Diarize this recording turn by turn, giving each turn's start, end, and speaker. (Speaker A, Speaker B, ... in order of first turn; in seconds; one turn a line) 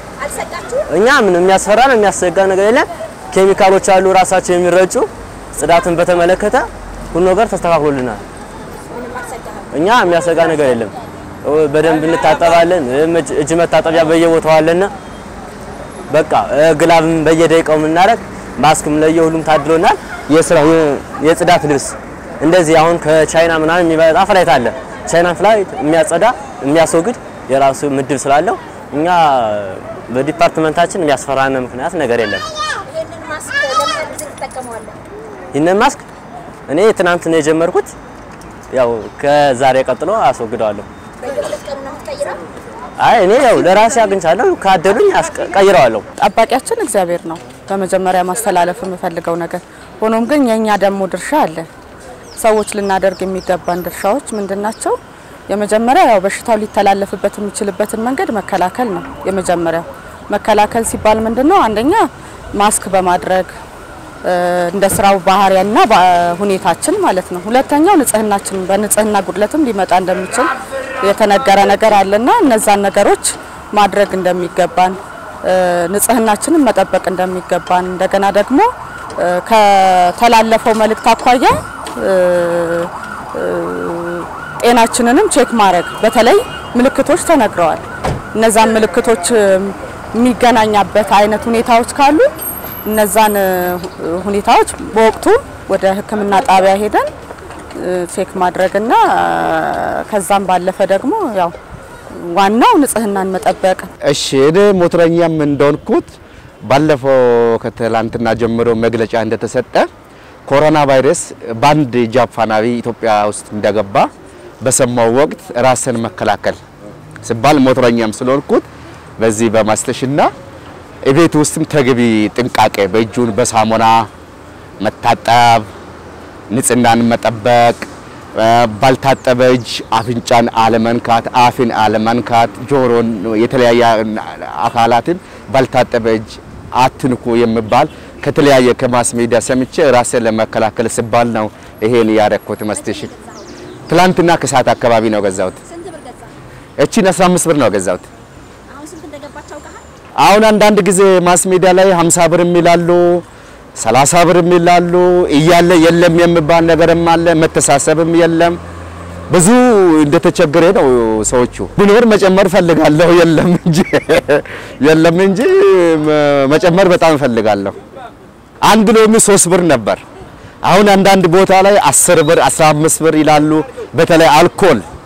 Speaker A: 0.2-1.0
Speaker B: 0.9-8.2
Speaker A: 8.9-9.8
Speaker B: 9.7-14.9
Speaker B: 16.1-32.5
Speaker A: 32.9-35.0
Speaker B: 35.5-36.1
Speaker B: 36.7-37.9
Speaker B: 38.7-40.9
Speaker A: 41.2-42.4
Speaker B: 43.0-46.0
Speaker C: 46.2-51.7
Speaker C: 52.4-55.0
Speaker C: 55.5-63.5
Speaker C: 64.3-70.5
Speaker C: 71.0-87.8
Speaker C: 88.3-92.3
Speaker C: 92.8-97.1
Speaker C: 97.8-101.5
Speaker C: 102.2-103.9
Speaker D: 104.0-109.9
Speaker D: 110.5-116.6
Speaker D: 117.2-118.7
Speaker D: 119.2-120.3
Speaker D: 121.0-124.1
Speaker D: 124.8-125.7
Speaker D: 126.5-143.1
Speaker A: 142.8-143.5
Speaker D: 143.9-145.6
Speaker A: 145.7-146.3
Speaker D: 146.8-148.1
Speaker A: 148.7-149.8
Speaker D: 150.2-153.3
Speaker D: 153.8-158.6
Speaker D: 159.3-167.8
Speaker D: 168.6-170.0
Speaker D: 170.6-174.8